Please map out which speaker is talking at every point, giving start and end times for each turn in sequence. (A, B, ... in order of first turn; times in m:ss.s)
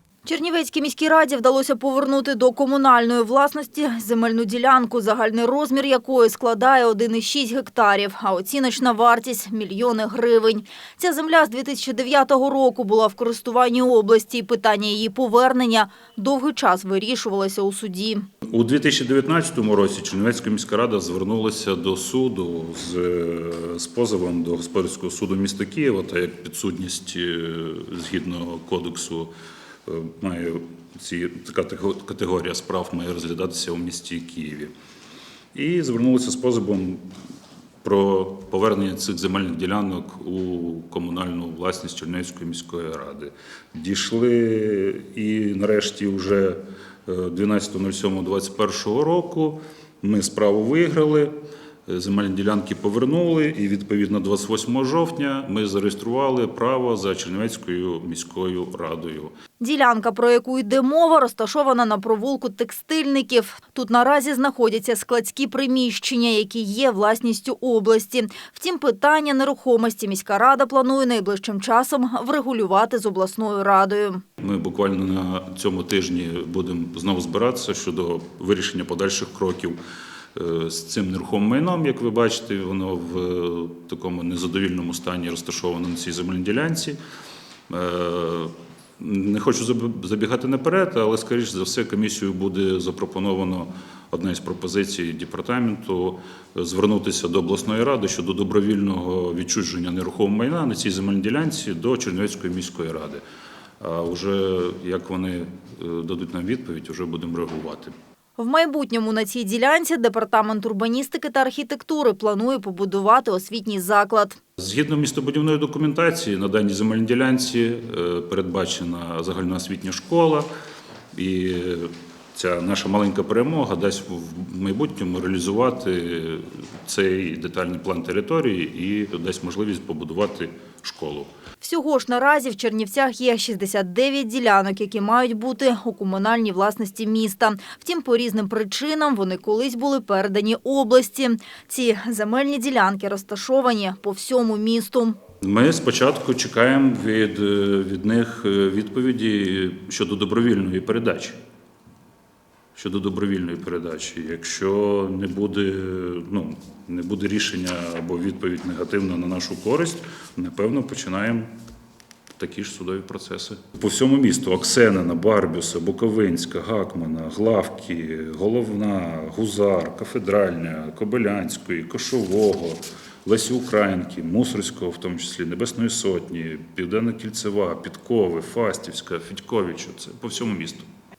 0:00.2-0:18.3 A
0:18.5-0:29.3 B
0:29.8-0:34.7 B
0:35.5-0:37.1 B
0:37.8-0:51.3 B
0:51.9-0:59.3 B
0:59.6-1:14.2 A
1:14.4-1:19.8 B
1:20.3-1:27.0 B
1:27.7-1:43.2 B
1:43.8-1:47.9 B
1:48.4-1:54.4 A
1:54.6-2:00.5 B
2:01.1-2:11.3 B
2:11.6-2:25.2 A
2:25.4-2:31.4 B
2:32.7-2:41.5 B
2:42.4-3:00.8 B